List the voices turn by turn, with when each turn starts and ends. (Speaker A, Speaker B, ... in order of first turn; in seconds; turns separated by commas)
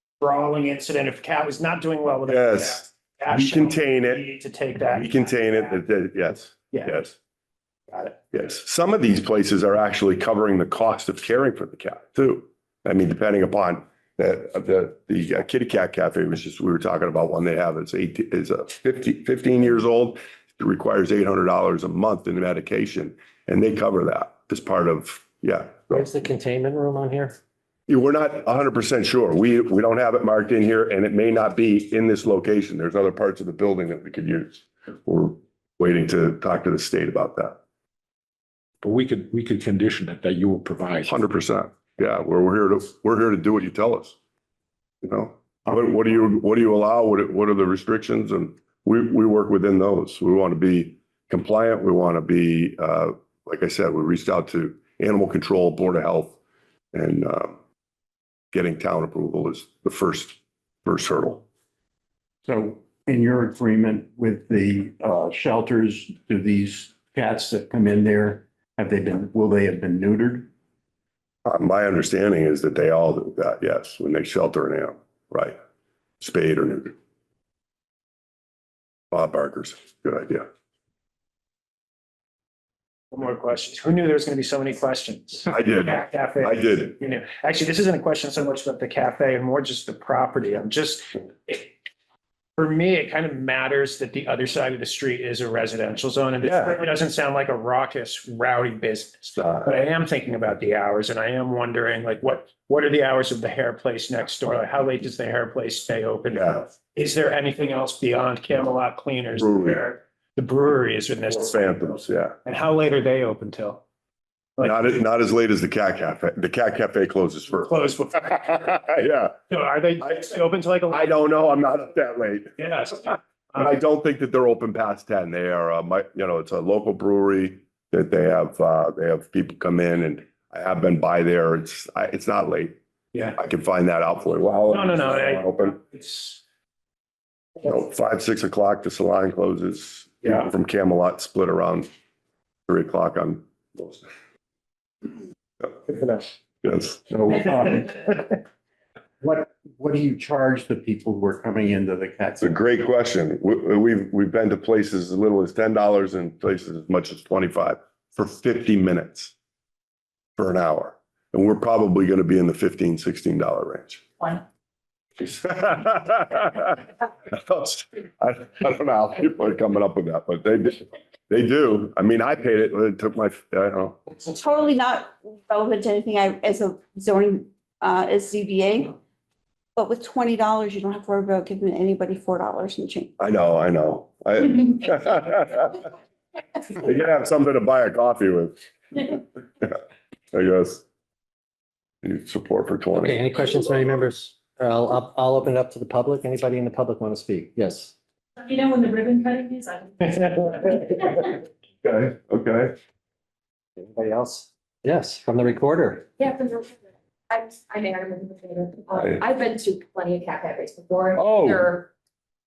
Speaker A: 0.2-5.8, Speaker B: 2.2-4.2, Speaker B: 4.9-7.1, Speaker B: 8.3-26.1, Speaker C: 25.9-27.4, Speaker B: 27.9-37.6, Speaker D: 38.8-41.2, Speaker B: 41.0-44.1, Speaker B: 45.0-56.4, Speaker B: 56.9-57.6, Speaker B: 58.5-61.4, Speaker E: 62.5-70.5, Speaker B: 71.4-75.6, Speaker B: 76.2-76.9, Speaker B: 79.1-80.5, Speaker A: 83.1-91.7, Speaker B: 85.5-87.0, Speaker A: 92.6-113.8, Speaker B: 96.4-96.8, Speaker B: 99.4-99.7, Speaker B: 106.3-106.6, Speaker B: 109.4-109.8, Speaker B: 111.3-112.3, Speaker A: 114.6-115.0, Speaker B: 114.6-117.7, Speaker A: 117.5-118.7, Speaker B: 118.3-119.3, Speaker A: 119.5-121.1, Speaker B: 120.0-120.3, Speaker B: 120.9-132.8, Speaker A: 122.6-123.1, Speaker B: 133.4-135.8, Speaker A: 134.7-136.4, Speaker B: 137.6-141.9, Speaker B: 142.7-144.1, Speaker A: 145.9-146.2, Speaker B: 146.6-147.0, Speaker E: 147.1-148.1, Speaker E: 149.2-152.6, Speaker B: 152.4-159.3, Speaker B: 160.4-164.0, Speaker B: 165.2-174.0, Speaker F: 174.3-178.9, Speaker F: 179.8-183.1, Speaker B: 183.2-185.8, Speaker B: 186.7-189.7, Speaker B: 190.3-190.8, Speaker B: 192.0-193.2, Speaker C: 192.9-197.9, Speaker G: 198.4-200.0, Speaker B: 201.8-202.7, Speaker C: 203.8-206.1, Speaker G: 206.2-211.9, Speaker B: 211.2-211.6